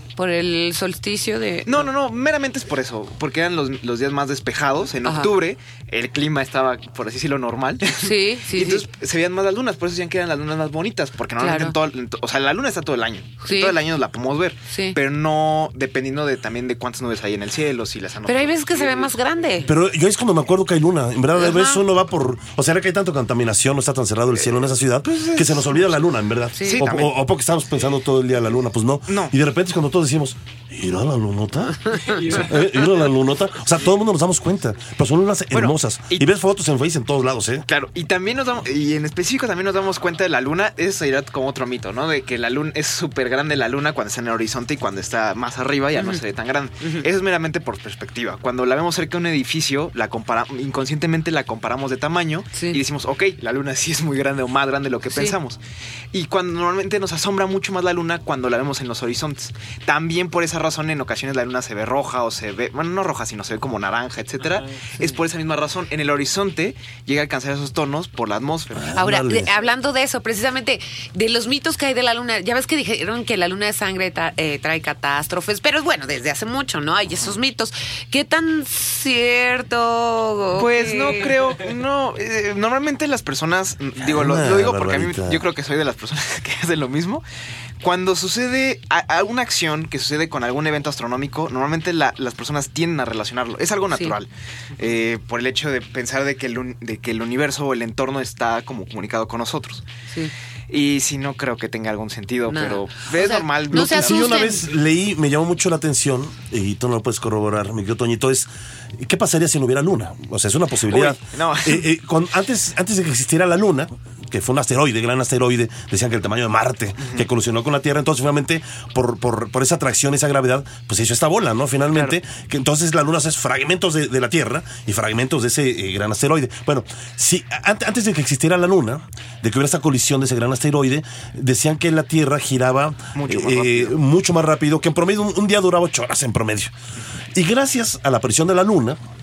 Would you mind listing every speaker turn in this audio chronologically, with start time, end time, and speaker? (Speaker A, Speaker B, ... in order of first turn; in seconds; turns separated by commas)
Speaker A: 0.2-1.8, Speaker B: 1.6-19.1, Speaker A: 5.0-5.3, Speaker A: 8.0-8.8, Speaker A: 11.4-11.7, Speaker A: 13.4-13.7, Speaker A: 14.7-15.0, Speaker A: 18.2-19.7, Speaker C: 19.6-37.7, Speaker A: 21.4-21.8, Speaker B: 25.1-25.9, Speaker A: 26.6-26.8, Speaker B: 26.6-27.1, Speaker B: 29.1-29.3, Speaker B: 35.5-36.2, Speaker B: 37.7-55.6, Speaker A: 46.0-46.2, Speaker A: 52.5-52.8, Speaker B: 56.1-69.0, Speaker C: 68.8-69.5, Speaker A: 68.9-81.3, Speaker B: 80.5-87.2, Speaker C: 84.0-85.4, Speaker B: 87.8-99.8, Speaker B: 100.7-104.5, Speaker A: 102.5-104.7, Speaker C: 103.7-136.7, Speaker B: 110.9-111.8, Speaker B: 133.1-133.9, Speaker C: 137.3-139.0